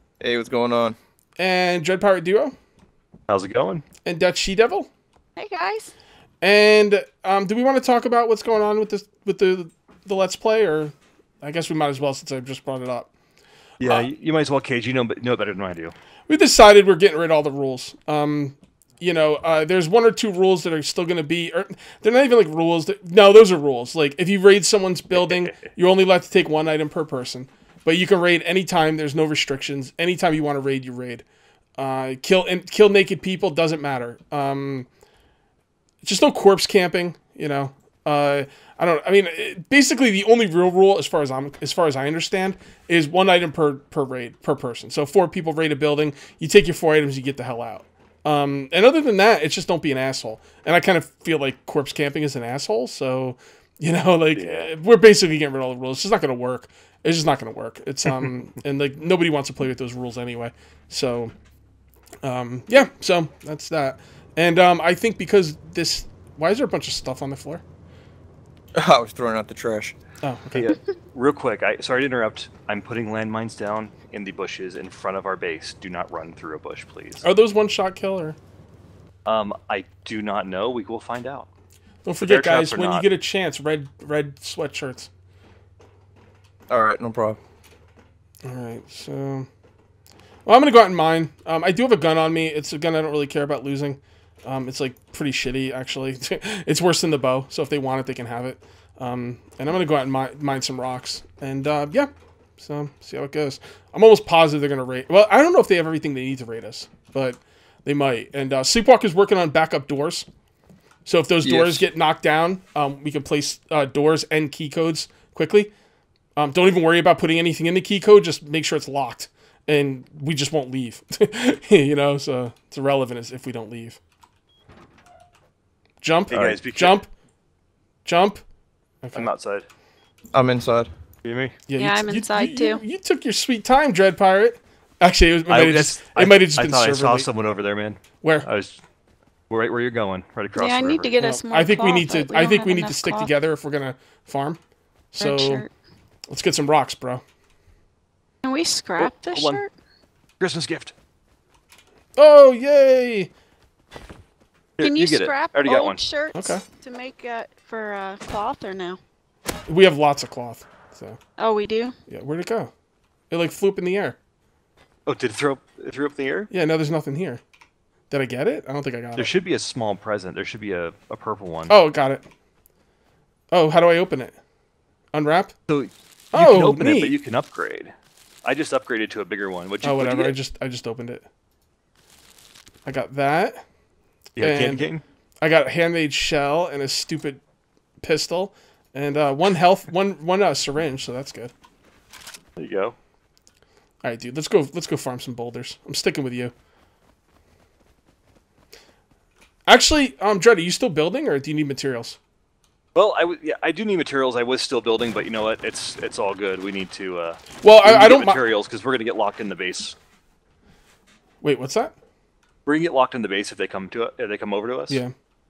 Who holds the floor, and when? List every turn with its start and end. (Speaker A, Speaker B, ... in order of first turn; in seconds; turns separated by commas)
Speaker A: 0.2-0.9, Speaker B: 1.4-2.5, Speaker C: 3.3-3.8, Speaker B: 4.0-4.9, Speaker D: 5.4-5.9, Speaker B: 6.4-13.1, Speaker C: 13.8-15.9, Speaker B: 13.8-14.1, Speaker B: 16.3-31.2, Speaker C: 25.1-25.6, Speaker B: 31.8-34.9, Speaker B: 36.0-61.3, Speaker C: 54.3-54.7, Speaker B: 62.2-67.6, Speaker A: 68.8-70.0, Speaker B: 70.2-70.8, Speaker C: 70.5-77.2, Speaker B: 77.2-78.4, Speaker C: 79.2-81.5, Speaker B: 82.0-85.1, Speaker C: 82.2-83.1, Speaker A: 86.7-87.4, Speaker B: 88.4-89.5, Speaker B: 90.5-110.3, Speaker B: 111.0-115.7, Speaker A: 111.4-111.8, Speaker B: 116.3-124.0, Speaker B: 126.0-127.1, Speaker C: 126.3-127.0, Speaker B: 128.0-128.4, Speaker B: 129.0-129.3, Speaker C: 129.1-129.7, Speaker A: 130.3-130.9, Speaker C: 131.2-131.6, Speaker B: 131.7-137.3, Speaker D: 131.8-132.8, Speaker C: 135.5-138.8, Speaker B: 138.2-138.5, Speaker C: 139.5-141.1, Speaker D: 140.6-143.3, Speaker B: 141.2-144.6, Speaker B: 145.1-145.6, Speaker D: 145.2-145.7, Speaker B: 146.3-147.2, Speaker D: 148.4-149.7, Speaker C: 149.0-149.6, Speaker C: 150.4-150.9, Speaker B: 152.2-153.3, Speaker C: 154.8-156.0, Speaker D: 154.8-159.0, Speaker B: 156.3-156.6, Speaker B: 159.7-161.2, Speaker D: 161.4-161.9, Speaker B: 162.1-162.7, Speaker B: 163.3-164.2, Speaker C: 165.1-166.5, Speaker B: 166.5-167.4, Speaker B: 168.1-169.3, Speaker C: 169.2-171.8, Speaker B: 171.7-172.2, Speaker B: 173.5-174.4, Speaker B: 175.1-175.5, Speaker C: 175.7-177.9, Speaker B: 176.3-177.2, Speaker C: 178.4-180.3, Speaker B: 179.8-181.2, Speaker B: 182.8-183.6, Speaker C: 184.4-185.0, Speaker B: 184.4-184.9, Speaker B: 185.4-187.4, Speaker B: 188.0-191.5, Speaker C: 192.6-192.9, Speaker B: 194.0-196.5, Speaker B: 199.7-202.2, Speaker C: 202.9-209.9, Speaker B: 207.6-208.4, Speaker B: 211.4-211.9, Speaker C: 212.7-215.0, Speaker B: 214.9-215.1